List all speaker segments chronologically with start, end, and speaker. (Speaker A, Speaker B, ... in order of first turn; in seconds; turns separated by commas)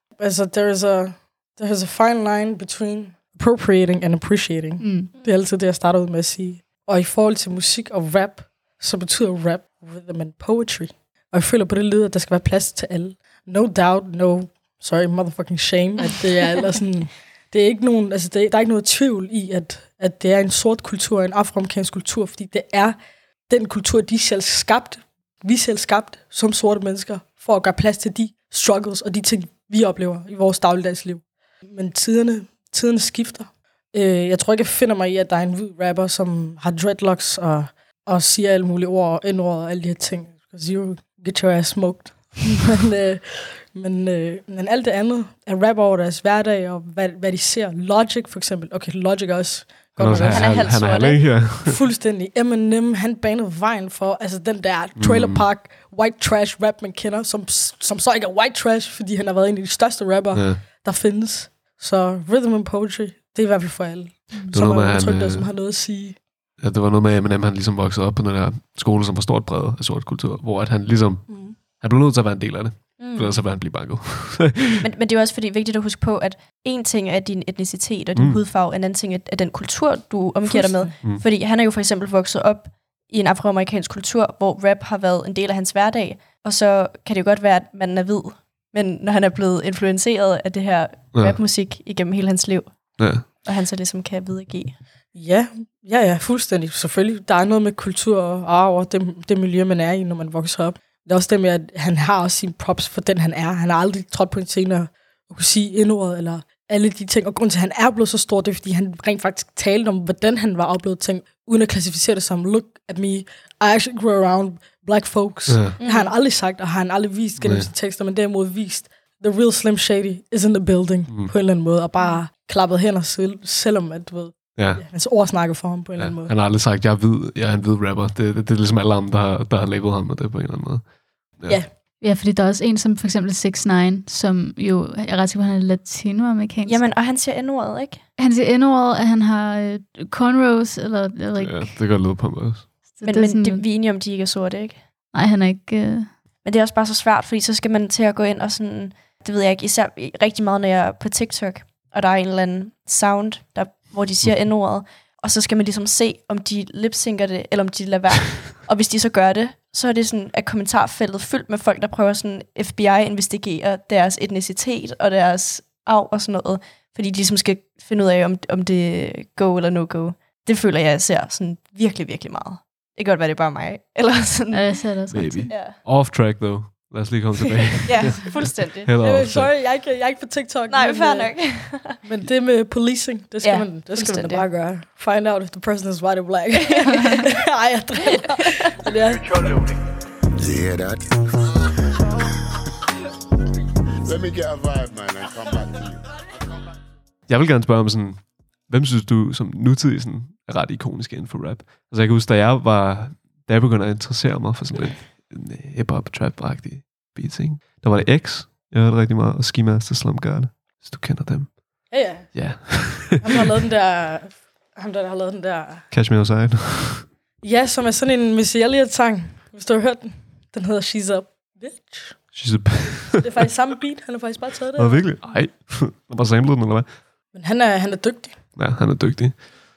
Speaker A: 0.2-66.2, Speaker B: 4.8-5.1, Speaker C: 50.0-51.8, Speaker D: 50.2-51.4, Speaker C: 55.0-55.5, Speaker C: 60.3-60.6, Speaker C: 64.5-65.5, Speaker C: 66.6-74.8, Speaker A: 71.3-71.5, Speaker D: 73.0-73.4, Speaker D: 74.8-94.8, Speaker C: 78.2-78.4, Speaker A: 80.4-80.9, Speaker C: 91.1-91.4, Speaker C: 93.0-93.2, Speaker A: 95.1-126.3, Speaker C: 115.5-115.8, Speaker D: 115.8-116.2, Speaker C: 117.4-117.7, Speaker C: 121.1-121.3, Speaker C: 124.5-125.4, Speaker C: 126.0-131.6, Speaker A: 131.4-131.7, Speaker B: 132.0-136.8, Speaker D: 136.6-138.1, Speaker B: 138.2-141.9, Speaker C: 141.4-142.9, Speaker B: 142.9-143.6, Speaker D: 143.0-144.9, Speaker B: 145.1-146.2, Speaker D: 146.4-175.0, Speaker B: 174.5-175.6, Speaker C: 175.1-179.5, Speaker D: 175.5-175.8, Speaker D: 177.8-178.9, Speaker A: 179.0-189.6, Speaker D: 180.7-182.0, Speaker D: 183.4-184.4, Speaker D: 186.8-187.2, Speaker E: 190.3-191.7, Speaker E: 194.0-196.4, Speaker C: 197.2-213.4, Speaker A: 211.9-215.9, Speaker C: 215.9-217.1, Speaker A: 217.4-225.3, Speaker C: 222.3-223.4, Speaker C: 224.8-227.2, Speaker A: 227.3-228.4, Speaker C: 228.5-229.4